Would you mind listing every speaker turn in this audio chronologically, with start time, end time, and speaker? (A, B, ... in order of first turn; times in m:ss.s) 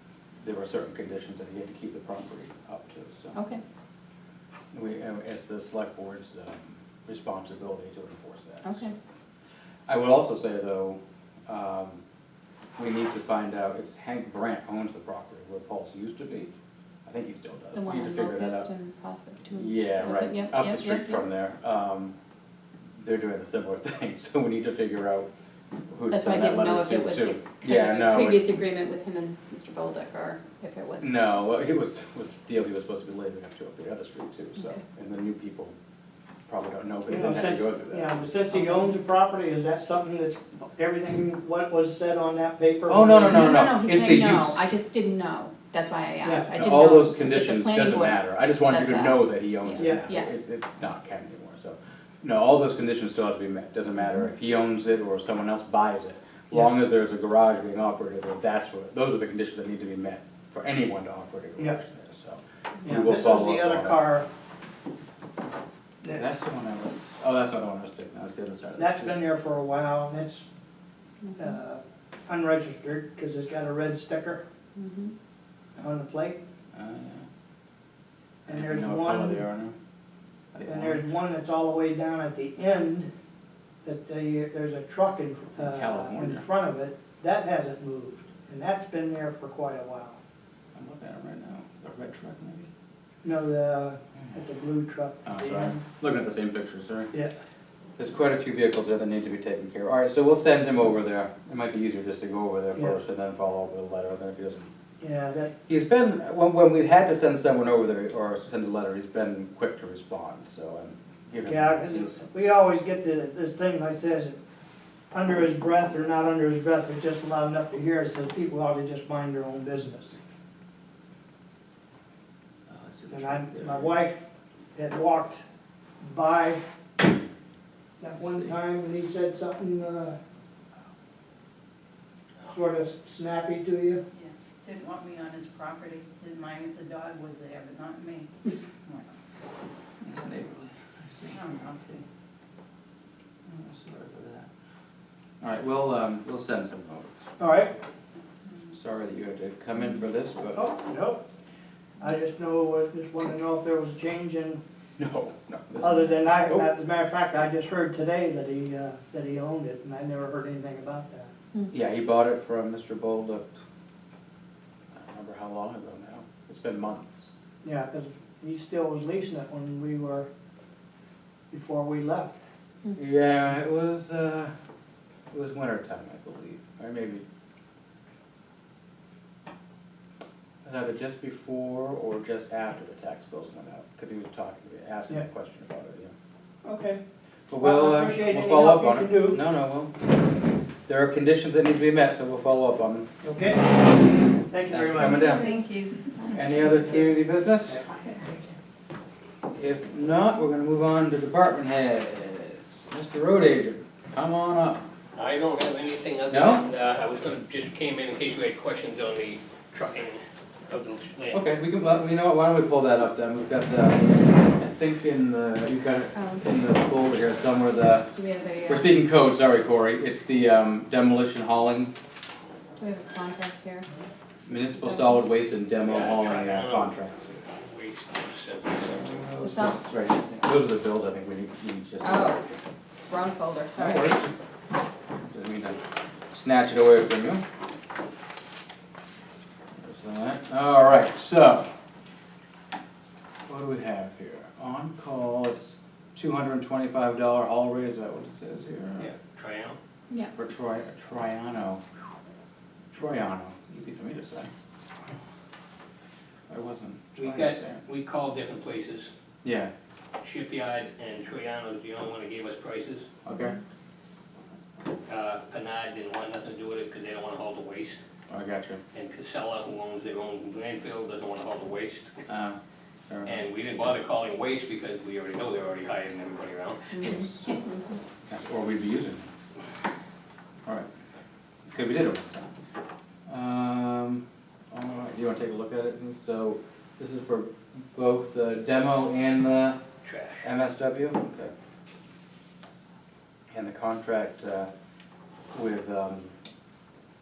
0:00.4-0:03.4 A
0:03.3-0:03.6 B
0:04.7-0:08.9 A
0:08.6-0:09.0 B
0:09.9-0:12.0 A
0:12.8-0:16.5 A
0:17.1-0:18.7 A
0:17.7-0:21.2 B
0:19.5-0:22.1 A
0:23.0-0:25.3 A
0:25.9-0:28.5 A
0:26.1-0:31.3 B
0:31.0-0:35.7 A
0:36.5-0:38.2 A
0:37.1-0:43.6 C
0:42.9-0:44.7 A
0:43.3-0:50.3 B
0:46.2-0:46.6 C
0:46.6-1:04.0 A
0:49.8-0:50.0 C
1:02.8-1:04.3 C
1:06.1-1:09.2 A
1:08.8-1:10.5 C
1:11.4-1:14.4 C
1:14.8-1:15.1 B
1:15.8-1:16.4 C
1:16.7-1:17.3 A
1:18.5-1:19.5 C
1:18.5-1:19.8 A
1:20.5-1:21.0 A
1:20.6-1:23.1 C
1:23.8-1:30.2 C
1:25.6-1:26.4 A
1:30.8-1:32.7 A
1:33.2-1:35.8 C
1:35.2-1:37.1 A
1:38.0-1:44.7 A
1:45.0-1:45.5 C
1:45.7-1:52.2 A
1:51.5-1:54.4 C
1:55.1-2:00.2 C
2:02.7-2:04.0 A
2:03.1-2:04.2 C
2:04.8-2:05.4 C
2:06.0-2:06.6 C
2:08.0-2:10.2 C
2:08.2-2:08.5 A
2:12.4-2:14.0 C
2:14.2-2:18.3 D
2:20.0-2:21.9 A
2:21.3-2:21.8 D
2:23.5-2:24.5 A
2:25.4-2:27.2 A
2:27.4-2:27.7 C
2:28.7-2:30.7 A
2:30.5-2:31.2 C
2:32.0-2:34.6 C
2:35.0-2:36.7 A
2:35.8-2:41.3 C
2:41.7-2:43.6 A
2:44.9-2:47.3 A
2:47.6-2:50.3 C
2:51.5-2:52.4 C
2:53.0-2:54.5 A
2:55.3-2:57.2 A
3:00.6-3:06.1 A
3:06.6-3:07.0 C
3:07.5-3:09.9 A
3:07.6-3:09.4 C
3:10.9-3:13.1 A
3:13.2-3:13.7 C
3:14.5-3:15.4 C
3:14.7-3:15.6 A
3:15.4-3:16.0 D
3:16.3-3:17.8 A
3:19.5-3:24.9 A
3:25.2-3:31.4 E
3:26.3-3:26.7 A
3:31.3-3:38.1 A
3:36.1-3:36.4 B
3:38.1-3:39.0 B
3:38.7-3:41.9 A
3:42.8-3:43.9 B
3:44.5-3:47.3 A
3:44.8-3:45.2 B
3:45.8-3:49.1 E
3:48.8-3:52.6 A
3:49.4-3:49.8 B
3:52.0-3:52.5 B
3:53.1-3:54.2 B
3:53.8-3:54.3 A
3:55.2-3:57.4 A
3:59.8-4:01.7 A
4:03.5-4:09.1 A
4:09.0-4:09.8 E
4:10.3-4:11.8 A
4:12.9-4:14.5 A
4:16.5-4:17.8 A
4:17.2-4:19.1 E
4:19.4-4:19.7 A
4:20.2-4:23.1 E
4:23.2-4:23.6 A
4:25.1-4:28.0 E
4:28.3-4:28.8 A
4:28.9-4:32.2 E
4:32.3-4:32.6 A
4:33.1-4:33.4 A
4:33.2-4:36.9 E
4:36.9-4:37.8 B
4:37.0-4:37.6 A
4:38.3-4:39.3 A
4:41.7-4:42.5 A
4:43.3-4:49.8 A
4:50.0-4:50.5 E
4:50.4-4:51.5 A
4:53.5-4:54.7 A
4:55.5-4:56.3 A